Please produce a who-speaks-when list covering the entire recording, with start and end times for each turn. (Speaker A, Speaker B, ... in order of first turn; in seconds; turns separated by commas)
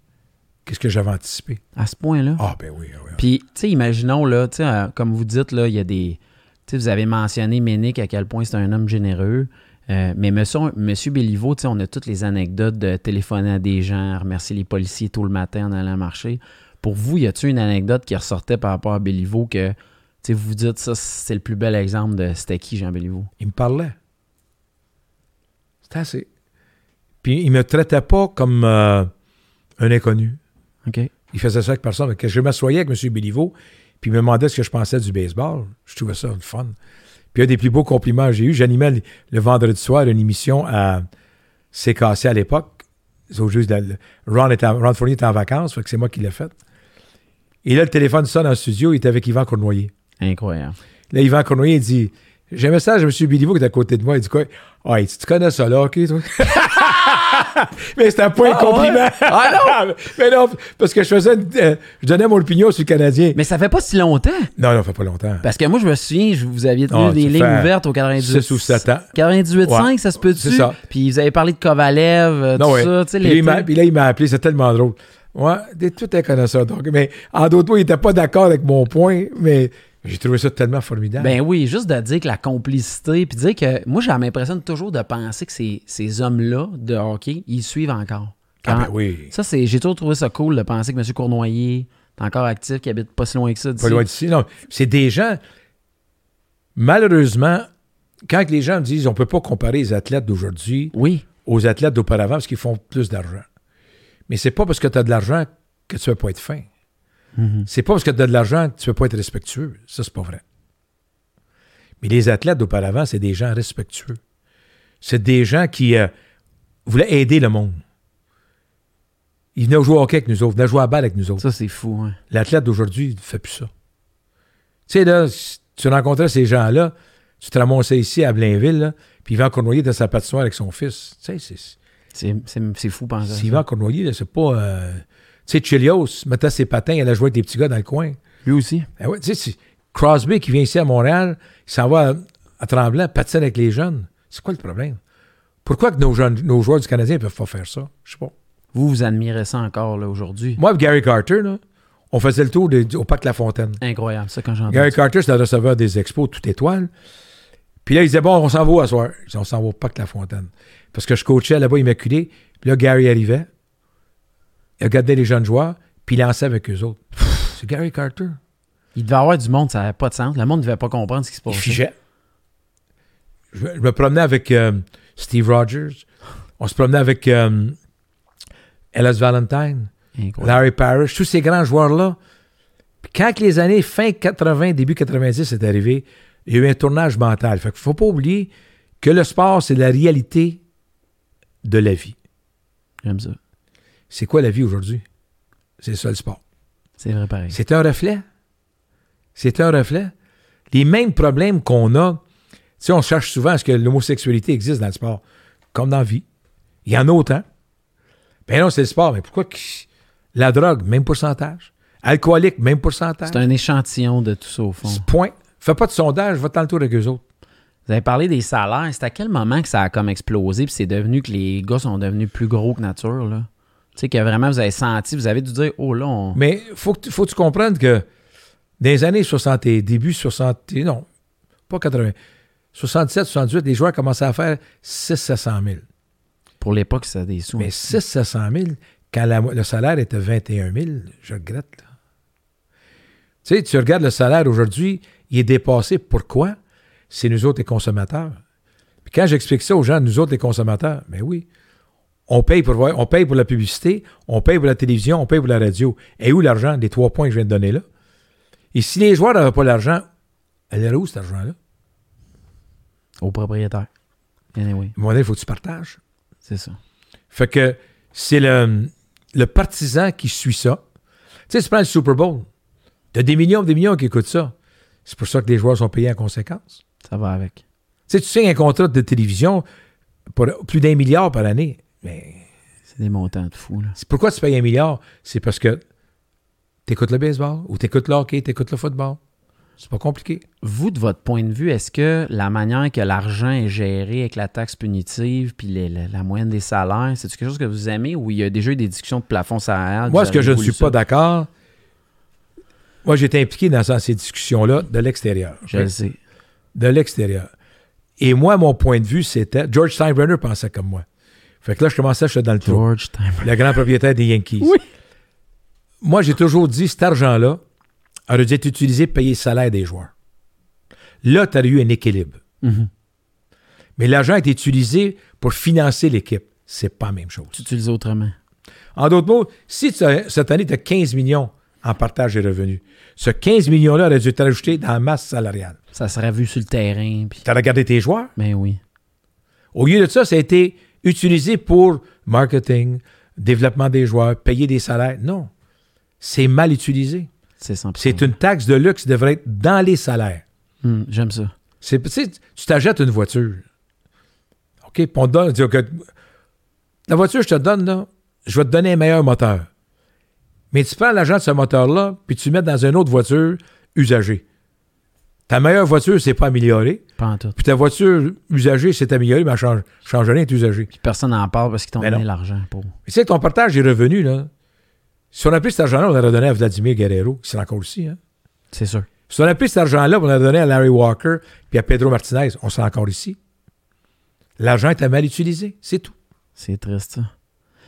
Speaker A: 0.7-1.6, Speaker B: 1.8-2.4, Speaker A: 2.4-3.2, Speaker B: 3.1-23.3, Speaker A: 23.4-23.9, Speaker A: 25.9-26.3, Speaker A: 27.2-29.1, Speaker A: 29.8-30.4, Speaker B: 30.8-31.1, Speaker A: 31.3-36.8, Speaker A: 37.3-41.1, Speaker A: 41.7-46.5, Speaker A: 47.6-49.9, Speaker B: 50.2-50.8, Speaker A: 51.1-63.4, Speaker B: 58.4-59.8, Speaker B: 63.3-64.5, Speaker A: 64.6-65.5, Speaker B: 65.4-73.7, Speaker A: 66.9-69.1, Speaker A: 69.6-70.8, Speaker A: 72.5-81.3, Speaker B: 81.2-94.0, Speaker A: 88.6-89.3, Speaker A: 93.8-95.4, Speaker A: 96.7-97.7, Speaker A: 98.3-100.9, Speaker B: 100.9-101.2, Speaker A: 101.4-103.5, Speaker A: 104.3-106.7, Speaker B: 107.3-107.7, Speaker A: 107.7-110.4, Speaker A: 112.0-114.2, Speaker A: 115.0-116.1, Speaker A: 116.8-117.8, Speaker A: 119.5-121.4, Speaker B: 121.4-122.2, Speaker A: 122.3-123.7, Speaker A: 124.9-131.8, Speaker B: 132.1-133.6, Speaker A: 133.3-138.2, Speaker B: 138.4-138.9, Speaker A: 139.0-145.0, Speaker A: 145.6-148.3, Speaker B: 148.7-150.6, Speaker A: 150.6-153.8, Speaker B: 153.8-154.9, Speaker A: 154.7-156.9, Speaker A: 157.8-163.5, Speaker A: 164.8-168.4, Speaker B: 168.9-171.8, Speaker A: 171.5-171.9, Speaker A: 173.5-176.0, Speaker A: 176.6-177.8, Speaker A: 178.9-182.2, Speaker B: 180.2-180.6, Speaker A: 183.0-190.6, Speaker A: 191.6-192.1, Speaker B: 193.0-193.4, Speaker A: 194.1-195.0, Speaker A: 195.8-196.4, Speaker B: 197.0-197.6, Speaker A: 197.5-198.2, Speaker A: 199.3-200.1, Speaker A: 200.7-202.2, Speaker A: 202.8-206.2, Speaker A: 206.8-207.4, Speaker A: 208.5-213.4, Speaker B: 213.2-215.1, Speaker A: 214.8-217.2, Speaker B: 217.9-226.4, Speaker A: 226.3-228.1, Speaker A: 228.8-231.1, Speaker A: 231.7-232.2, Speaker A: 232.7-235.8, Speaker B: 236.6-237.9, Speaker A: 237.6-241.9, Speaker A: 243.4-246.6, Speaker A: 247.1-248.4, Speaker A: 249.0-251.4, Speaker A: 252.3-257.8, Speaker A: 258.7-260.0, Speaker A: 260.7-261.6, Speaker B: 263.2-263.9, Speaker B: 264.5-264.9, Speaker A: 264.9-266.0, Speaker B: 266.4-266.8, Speaker A: 267.3-270.8, Speaker A: 271.5-272.5, Speaker A: 273.1-274.5, Speaker A: 275.1-276.8, Speaker B: 277.0-277.6, Speaker A: 278.1-279.6, Speaker A: 280.3-282.4, Speaker B: 282.9-283.9, Speaker A: 283.9-285.8, Speaker A: 286.9-289.2, Speaker A: 289.8-290.4, Speaker B: 290.6-300.9, Speaker A: 300.1-301.5, Speaker A: 303.0-305.9, Speaker B: 305.7-306.2, Speaker A: 306.7-307.5, Speaker A: 308.2-311.0, Speaker A: 311.6-312.8, Speaker B: 312.6-313.6, Speaker A: 313.4-314.7, Speaker A: 316.0-317.6, Speaker A: 318.3-320.1, Speaker A: 321.2-322.4, Speaker B: 322.6-322.9, Speaker A: 324.0-327.6, Speaker B: 327.5-328.4, Speaker A: 328.9-335.8, Speaker B: 335.9-337.4, Speaker A: 337.4-338.3, Speaker B: 338.4-338.8, Speaker A: 339.7-345.5, Speaker A: 346.2-347.3, Speaker B: 347.6-348.3, Speaker A: 348.0-350.4, Speaker B: 350.8-351.5, Speaker A: 351.8-353.6, Speaker A: 354.8-356.1, Speaker A: 357.1-359.7, Speaker A: 360.7-364.4, Speaker A: 365.5-367.0, Speaker B: 367.2-367.6, Speaker A: 367.6-370.9, Speaker B: 370.9-372.9, Speaker A: 372.0-372.2, Speaker A: 373.1-374.5, Speaker A: 375.3-378.2, Speaker B: 378.7-379.1, Speaker A: 379.3-383.4, Speaker A: 384.6-386.1, Speaker B: 386.6-387.3